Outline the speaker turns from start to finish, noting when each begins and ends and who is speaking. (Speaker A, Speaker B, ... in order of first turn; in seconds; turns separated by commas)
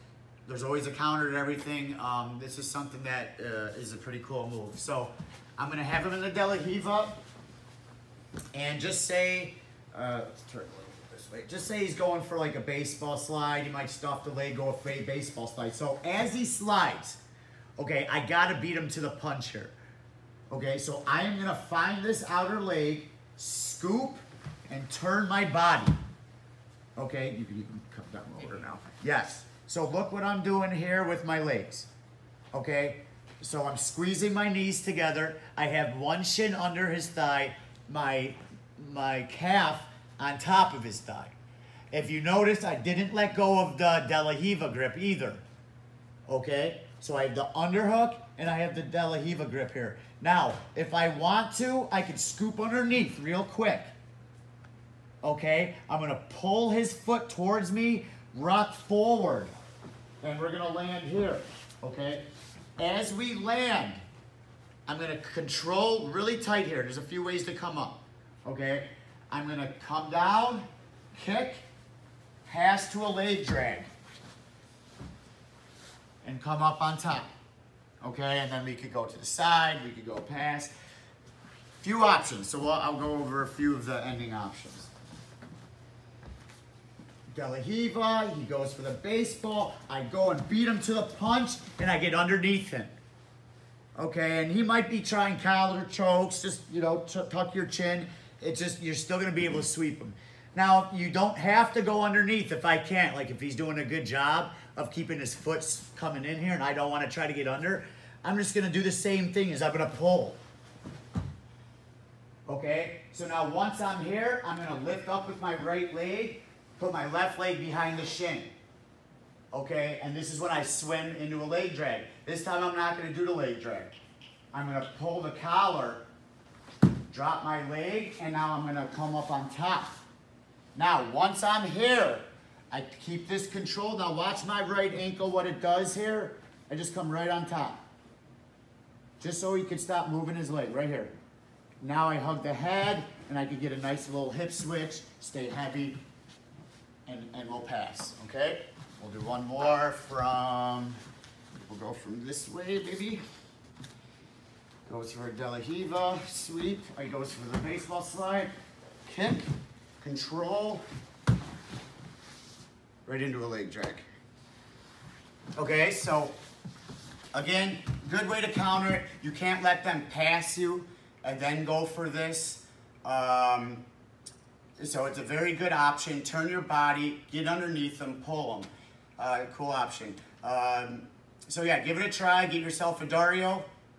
Speaker A: 0.5-7.2, Speaker A: 8.5-17.2, Speaker A: 17.8-19.7, Speaker A: 20.5-26.0, Speaker A: 26.9-31.9, Speaker A: 32.5-41.3, Speaker A: 41.9-45.4, Speaker A: 46.3-53.9, Speaker A: 55.2-59.5, Speaker A: 60.2-62.2, Speaker A: 62.8-64.0, Speaker A: 64.8-71.6, Speaker A: 72.5-73.9, Speaker A: 76.2-77.3, Speaker A: 78.0-80.7, Speaker A: 81.8-84.9, Speaker A: 87.3-92.9, Speaker A: 94.0-110.4, Speaker A: 112.5-118.5, Speaker A: 119.5-123.9, Speaker A: 124.5-126.0, Speaker A: 127.1-130.0, Speaker A: 130.7-137.8, Speaker A: 139.2-141.1, Speaker A: 141.8-146.0, Speaker A: 147.1-151.0, Speaker A: 151.6-153.2, Speaker A: 154.8-158.5, Speaker A: 159.0-159.5, Speaker A: 160.0-160.8, Speaker A: 163.0-164.1, Speaker A: 165.5-166.3, Speaker A: 167.3-173.8, Speaker A: 174.8-183.7